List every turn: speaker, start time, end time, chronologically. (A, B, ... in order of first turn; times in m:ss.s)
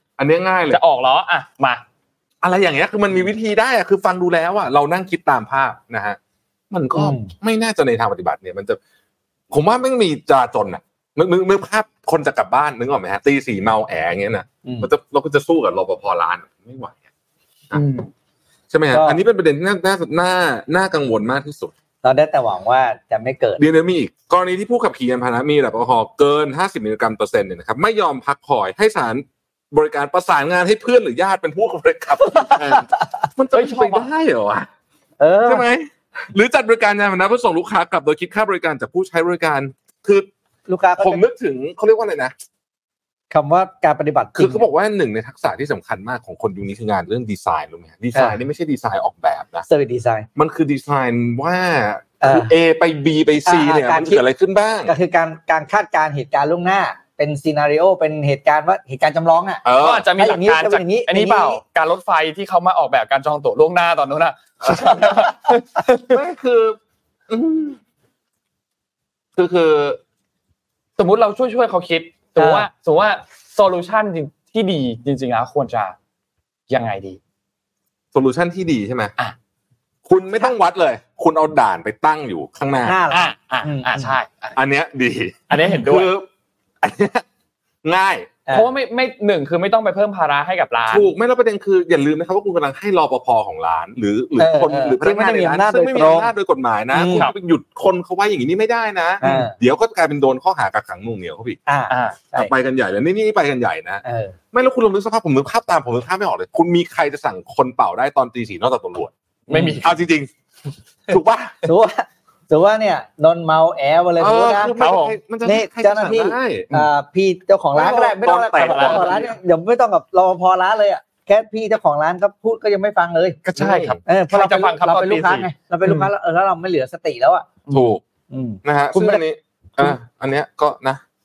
0:00.2-0:00.8 A
0:00.7-0:01.8 B
0:02.4-0:06.2 A
0:06.7-0:08.8 A
0:07.0-0:07.3 C
0:09.5-0:17.0 A
0:17.7-0:18.1 B
0:18.7-0:21.7 A
0:18.9-0:19.2 C
0:22.0-0:23.6 C
0:23.6-0:34.7 A
0:32.3-0:33.0 C
0:33.5-0:34.1 B
0:35.2-0:35.7 C
0:35.5-0:40.3 A
0:40.7-0:41.2 C
0:41.0-0:42.3 A
0:43.3-0:44.6 C
0:44.4-0:49.6 A
0:49.7-0:50.3 C
0:50.4-0:54.9 A
0:52.2-0:52.5 C
0:53.5-0:54.2 C
0:54.9-0:59.6 C
0:59.6-1:00.1 A
0:59.8-1:06.2 B
1:00.2-1:01.6 C
1:06.1-1:06.8 A
1:07.3-1:07.8 A
1:09.4-1:10.0 A
1:11.0-1:16.0 B
1:12.4-1:12.7 C
1:16.7-1:17.2 B
1:18.1-1:19.1 A
1:20.1-1:23.0 A
1:22.8-1:24.1 C
1:23.1-1:24.6 B
1:24.6-1:26.3 A
1:25.5-1:26.1 B
1:26.8-1:27.2 A
1:27.8-1:28.3 A
1:28.5-1:31.1 B
1:30.9-1:41.6 A
1:34.4-1:36.3 C
1:36.9-1:37.3 C
1:39.2-1:39.6 C
1:41.7-1:42.5 C
1:41.9-1:42.2 B
1:42.4-1:49.1 A
1:44.0-1:44.4 C
1:49.5-1:49.9 B
1:49.5-1:49.8 C
1:49.8-1:50.3 A
1:51.1-1:51.6 A
1:51.6-1:54.8 C
1:54.2-1:56.8 A
1:54.8-1:55.2 B
1:55.4-2:03.4 C
1:57.7-1:59.3 A
1:58.6-1:59.2 B
2:03.5-2:06.1 B
2:03.6-2:04.0 A
2:04.0-2:07.6 C
2:07.7-2:07.9 B
2:07.7-2:08.0 A
2:08.3-2:09.2 C
2:08.6-2:11.0 A